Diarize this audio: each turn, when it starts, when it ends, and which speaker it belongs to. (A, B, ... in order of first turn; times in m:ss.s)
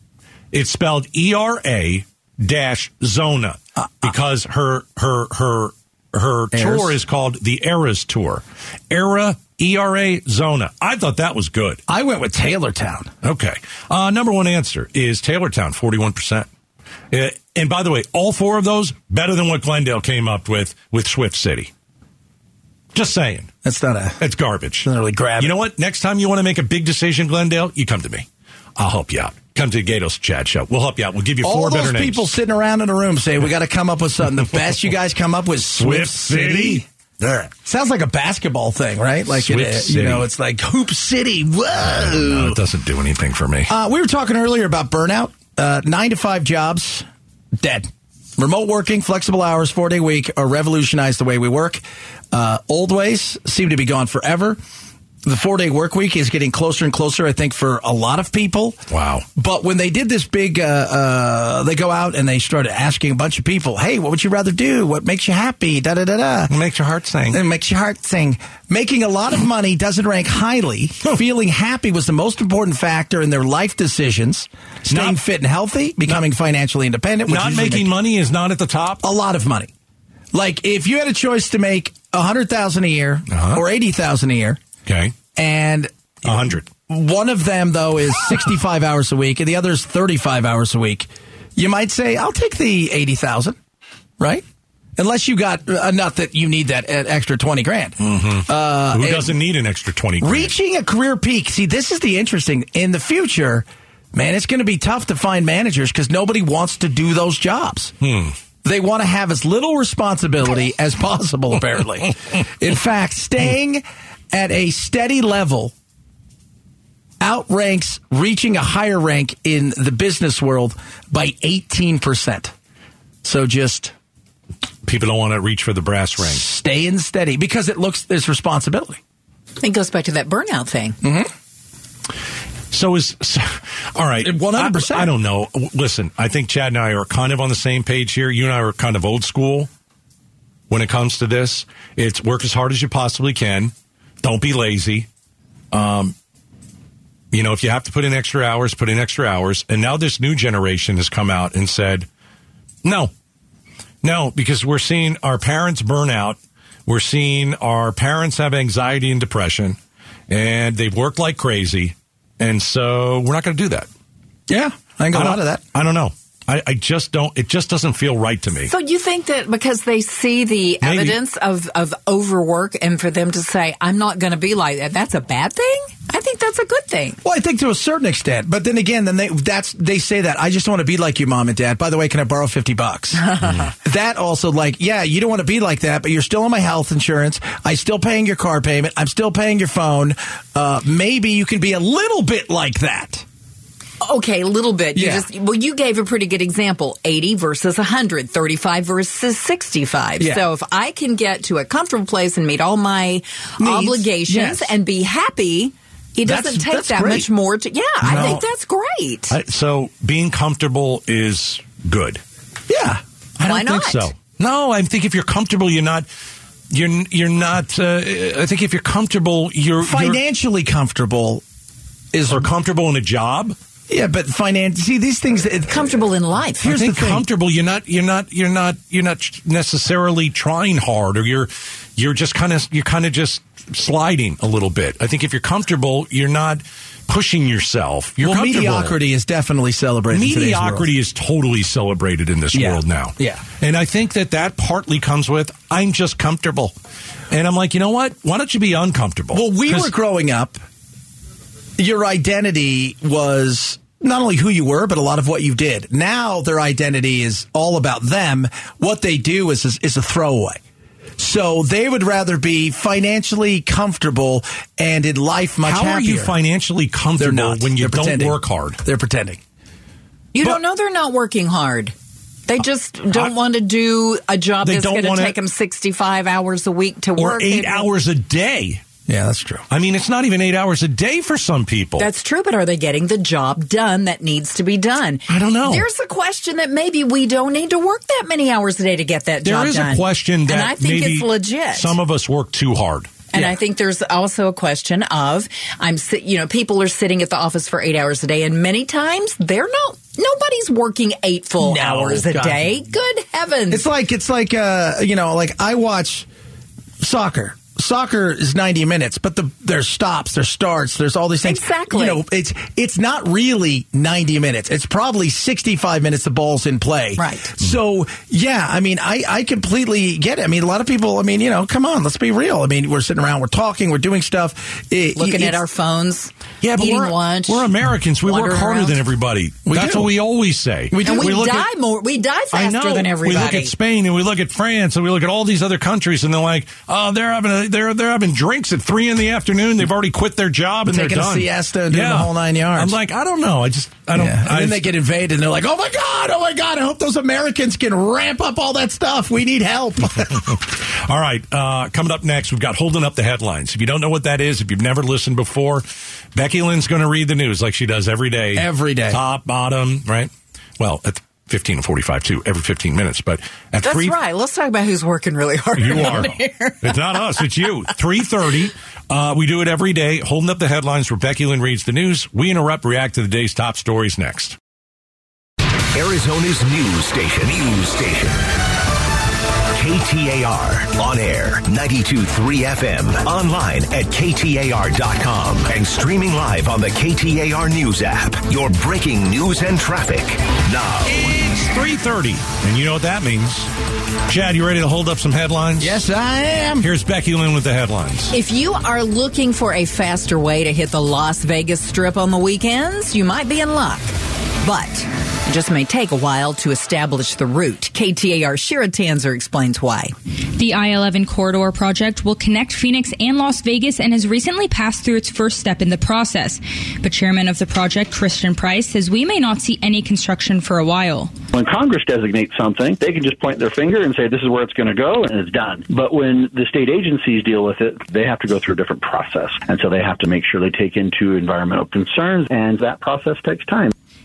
0:00.5-0:11.8 A
0:03.8-0:04.1 B
0:06.5-0:07.0 B
0:11.9-0:13.1 B
0:13.2-0:16.5 A
0:17.1-0:21.7 A
0:22.9-0:23.5 A
0:23.6-0:24.2 B
0:24.2-0:32.3 A
0:24.8-0:25.6 B
0:31.4-0:36.9 B
0:35.8-0:37.5 A
0:37.5-0:42.6 B
0:39.3-0:40.3 A
0:41.8-0:43.7 A
0:43.7-0:47.1 B
0:47.6-0:54.6 B
0:55.2-0:58.8 B
0:58.9-0:59.3 A
0:59.4-1:06.5 B
1:06.5-1:07.4 A
1:07.3-1:17.9 B
1:14.9-1:15.2 A
1:17.3-1:19.0 A
1:19.0-1:19.7 B
1:20.3-1:24.6 B
1:23.3-1:23.6 A
1:24.9-1:25.2 A
1:25.4-1:33.6 B
1:26.2-1:26.7 A
1:34.2-1:34.4 B
1:35.0-1:39.4 B
1:38.0-1:40.5 A
1:40.2-1:47.9 B
1:48.0-1:48.3 A
1:48.6-1:55.7 B
1:57.2-2:02.5 B
2:03.2-2:03.9 B
2:04.8-2:06.4 A
2:06.2-2:09.0 B
2:09.6-2:11.0 C
2:11.0-2:11.3 B
2:12.7-2:19.7 A
2:14.2-2:15.1 B
2:20.7-2:25.1 A
2:25.7-2:26.1 A
2:27.3-2:32.1 A
2:32.8-2:33.1 A
2:34.0-2:39.8 A
2:40.3-2:43.9 A
2:44.5-2:45.6 B
2:45.1-2:48.7 A
2:48.7-2:57.2 C
2:50.8-2:51.2 A
2:57.2-3:13.2 B
3:14.0-3:29.4 C
3:14.9-3:15.3 B
3:20.2-3:20.4 B
3:23.6-3:24.8 B
3:26.2-3:27.3 B
3:28.0-3:28.4 B
3:28.1-3:28.4 A
3:29.3-3:32.2 A
3:32.7-3:33.0 B
3:33.4-3:36.1 A
3:33.5-3:34.1 C
3:36.7-3:40.2 A
3:39.8-3:41.4 B
3:42.1-3:42.5 B
3:42.3-3:43.6 A
3:43.9-3:46.0 B
3:45.7-3:46.7 C
3:46.6-3:47.2 B
3:46.6-3:59.0 A
3:58.2-4:00.9 B
4:00.1-4:06.8 A
4:02.5-4:03.4 B
4:07.3-4:09.9 A
4:09.3-4:10.6 B
4:11.8-4:20.6 B
4:21.2-4:26.3 B
4:25.6-4:28.8 A
4:27.2-4:29.4 B
4:30.3-4:32.0 C
4:32.5-4:37.9 C
4:34.6-4:35.4 A
4:37.2-4:38.8 A
4:39.1-4:39.6 B
4:39.7-4:42.1 A
4:42.0-4:52.0 C
4:45.3-4:45.9 A
4:49.4-4:53.1 A
4:53.3-5:03.8 C
5:01.6-5:02.7 B
5:03.7-5:06.3 B
5:07.0-5:25.6 B
5:11.4-5:12.2 C
5:17.2-5:17.5 C
5:25.2-5:27.7 C
5:26.6-5:31.7 A
5:28.2-5:29.0 C
5:29.7-5:30.2 B
5:30.9-5:31.5 B
5:31.0-5:33.7 C
5:32.5-5:44.9 A
5:40.9-5:43.0 B
5:44.2-5:50.6 B
5:50.4-6:04.2 A
5:58.6-5:59.2 B
6:03.8-6:07.0 C
6:05.8-6:14.6 A
6:15.9-6:18.5 D
6:19.7-6:31.5 D
6:31.1-6:33.7 A
6:34.3-6:36.0 A
6:35.8-6:36.9 B
6:36.8-6:38.4 A
6:38.3-6:50.1 C
6:50.6-7:01.3 E
7:01.5-7:13.9 F